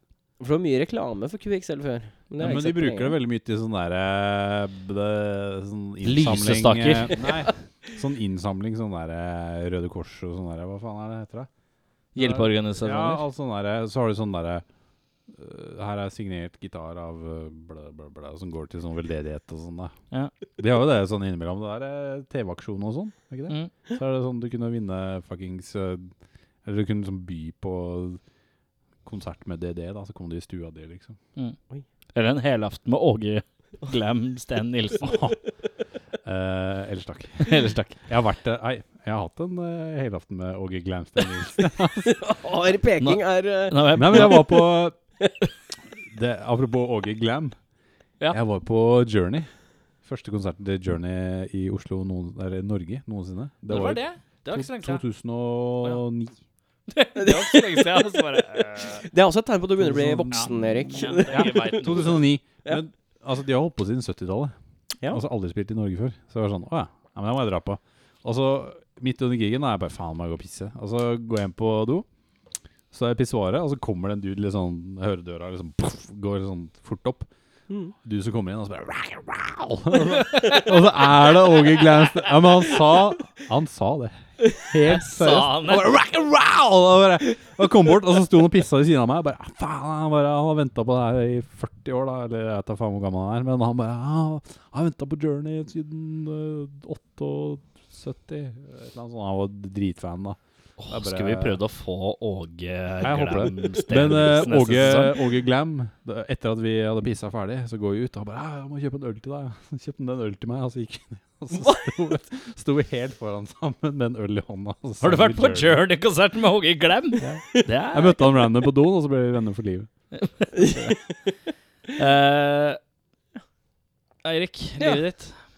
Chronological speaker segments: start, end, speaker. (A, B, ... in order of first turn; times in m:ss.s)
0:00.4-0:03.2 A
0:02.4-0:11.5 B
0:06.0-0:07.2 C
0:12.1-0:13.2 C
0:12.1-0:14.6 B
0:15.3-0:19.9 B
0:20.6-0:26.1 B
0:26.6-0:28.2 B
0:29.0-0:31.2 B
0:32.1-0:35.2 C
0:35.0-0:35.4 B
0:36.2-0:37.5 B
0:37.4-0:38.0 C
0:38.1-0:42.2 B
0:42.1-0:44.5 A
0:43.0-0:44.4 C
0:43.9-0:45.0 B
0:46.0-0:47.6 B
0:48.3-0:49.5 B
0:50.0-0:56.4 B
0:53.7-0:55.0 C
0:56.9-0:59.0 C
0:57.2-1:02.1 A
0:59.8-1:04.5 B
1:00.3-1:02.2 C
1:05.1-1:12.0 B
1:12.9-1:17.3 B
1:17.7-1:17.9 A
1:18.0-1:41.6 B
1:20.2-1:20.7 C
1:24.9-1:25.9 C
1:40.8-1:45.2 C
1:43.0-1:55.8 B
1:51.5-1:51.8 A
1:55.0-1:58.2 C
1:57.2-1:59.9 B
2:00.1-2:00.9 C
2:00.6-2:01.0 A
2:02.0-2:02.8 C
2:04.2-2:05.4 C